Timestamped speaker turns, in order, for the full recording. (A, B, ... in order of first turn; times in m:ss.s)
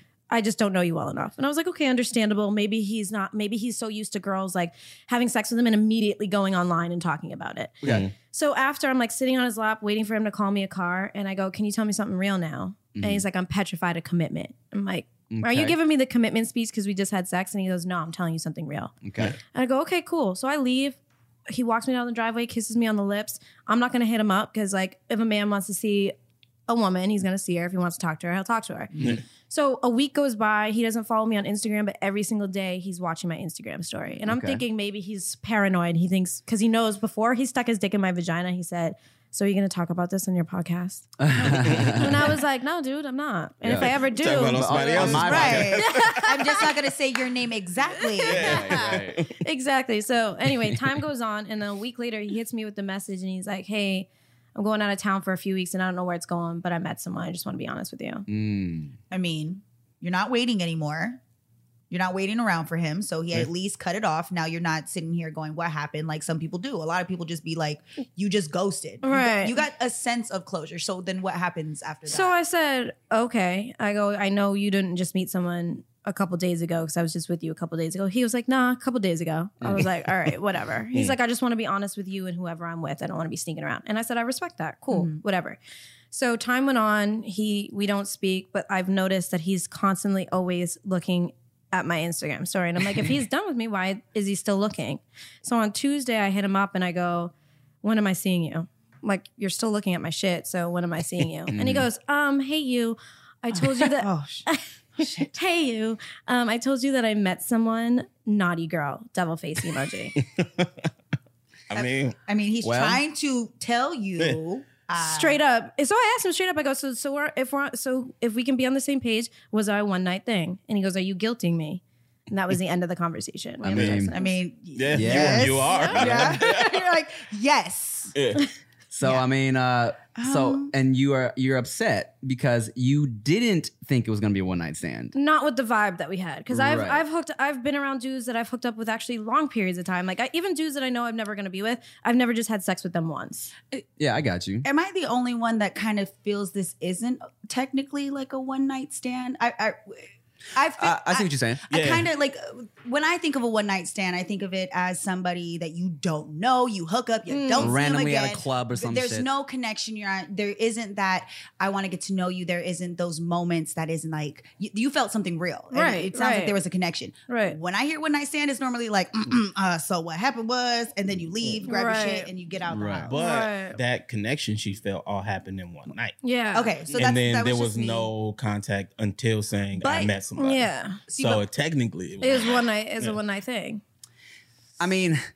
0:00.3-0:18.9 A
0:07.8-0:08.1 B
0:13.0-0:13.2 C
0:15.3-0:15.8 C
0:19.0-0:19.4 C
0:19.5-0:21.0 A
0:21.5-0:26.1 A
0:26.7-0:28.9 A
0:29.5-0:46.7 A
0:34.2-0:34.6 C
0:41.2-0:42.3 C
0:41.6-0:42.0 B
0:43.6-0:45.8 C
0:44.0-0:46.2 B
0:45.0-0:48.6 D
0:48.0-0:58.2 A
0:48.2-0:49.3 B
0:48.3-0:49.2 C
0:58.3-0:59.0 C
0:59.1-1:01.2 D
1:01.9-1:12.3 D
1:09.0-1:09.6 A
1:12.1-1:25.6 A
1:24.9-1:25.2 D
1:26.1-1:37.3 A
1:37.8-1:50.2 A
1:41.5-1:41.9 C
1:43.6-1:44.5 D
1:45.0-1:45.3 D
1:50.2-1:50.7 B
1:51.7-1:52.2 B
1:51.7-1:55.4 D
1:52.6-1:53.0 C
1:55.0-2:04.3 A
2:03.6-2:04.1 C
2:03.7-2:04.1 B
2:04.1-2:08.2 D
2:04.8-2:06.9 B
2:04.9-2:06.3 C
2:05.6-2:06.1 A
2:08.2-2:08.5 B
2:08.9-2:15.1 C
2:10.2-2:10.7 D
2:15.1-2:23.5 A
2:16.5-2:17.0 C
2:24.0-2:24.7 C
2:24.6-2:30.0 D
2:30.6-2:53.2 D
2:30.8-2:31.7 C
2:31.7-2:32.1 B
2:37.3-2:37.8 A
2:37.6-2:39.3 C
2:45.7-2:46.6 A
2:47.3-2:47.6 A
2:51.7-2:52.3 A
2:52.7-2:53.1 C
2:53.1-2:56.2 B
2:53.1-2:53.8 A
2:56.2-2:56.7 A
2:56.5-2:58.1 D
2:56.9-3:03.2 B
2:59.8-3:00.2 D
3:00.4-3:01.0 A
3:01.1-3:01.4 D
3:02.2-3:03.8 A
3:04.8-3:05.2 C